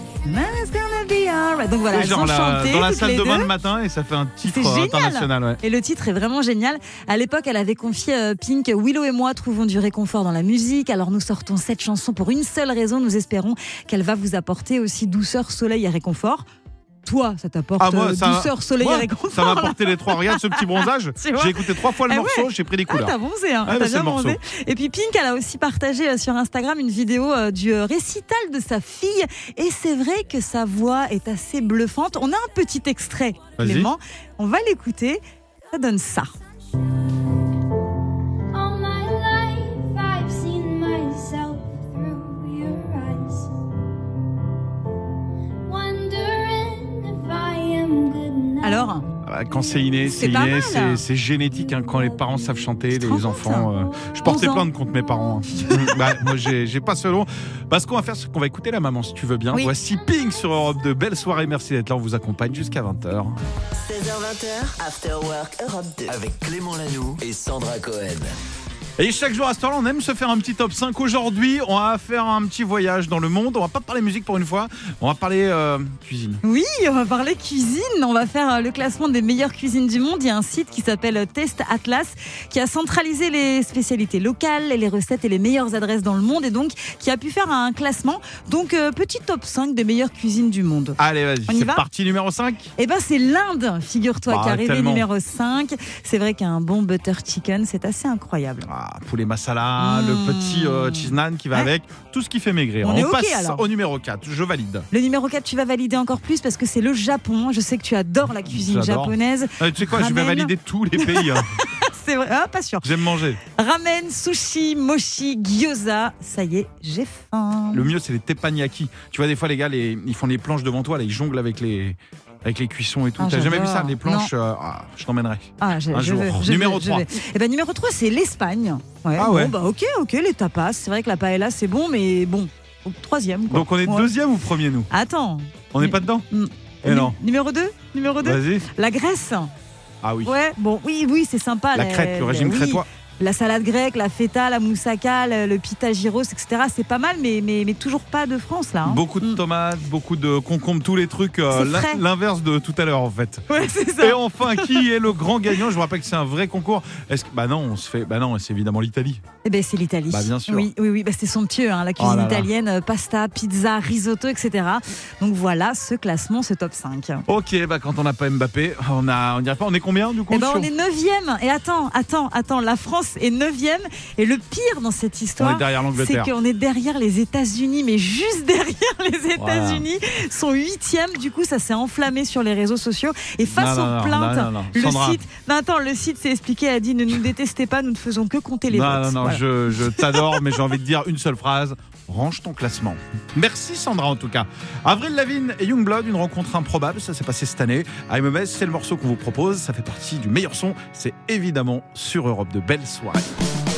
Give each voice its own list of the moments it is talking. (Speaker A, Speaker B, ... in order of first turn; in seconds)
Speaker A: 0.2-3.5, 4.4-16.4, 17.0-20.6, 21.2-36.3, 48.6-49.0, 50.0-51.0, 53.0-53.7, 54.2-54.6, 55.6-56.0, 76.4-91.8, 92.8-98.7, 99.8-101.7, 102.8-103.6, 104.9-112.9, 113.4-117.9, 123.2-124.3, 125.6-134.1, 134.9-139.5, 140.2-149.4, 151.5-152.0, 153.5-154.8, 159.4-167.2, 170.3-190.4
Speaker B: 1.9-5.6, 17.8-23.1, 23.6-24.4, 33.6-33.9, 49.2-63.4, 69.0-76.4, 91.0-92.7, 94.3-95.1, 98.6-104.9, 108.4-111.5, 112.8-113.4, 117.7-127.1, 129.2-129.5, 133.5-134.9, 135.7-136.2, 136.8-137.2, 138.2-138.7, 140.0-140.3, 141.7-142.8, 148.8-153.4, 154.0-159.2, 160.1-160.7, 162.0-162.5, 167.3-170.7, 175.4-176.3, 179.4-179.8, 183.5-185.2, 188.7-203.3
Speaker C: 38.5-43.5, 45.7-48.8
Speaker D: 63.8-66.2
Speaker E: 66.1-68.3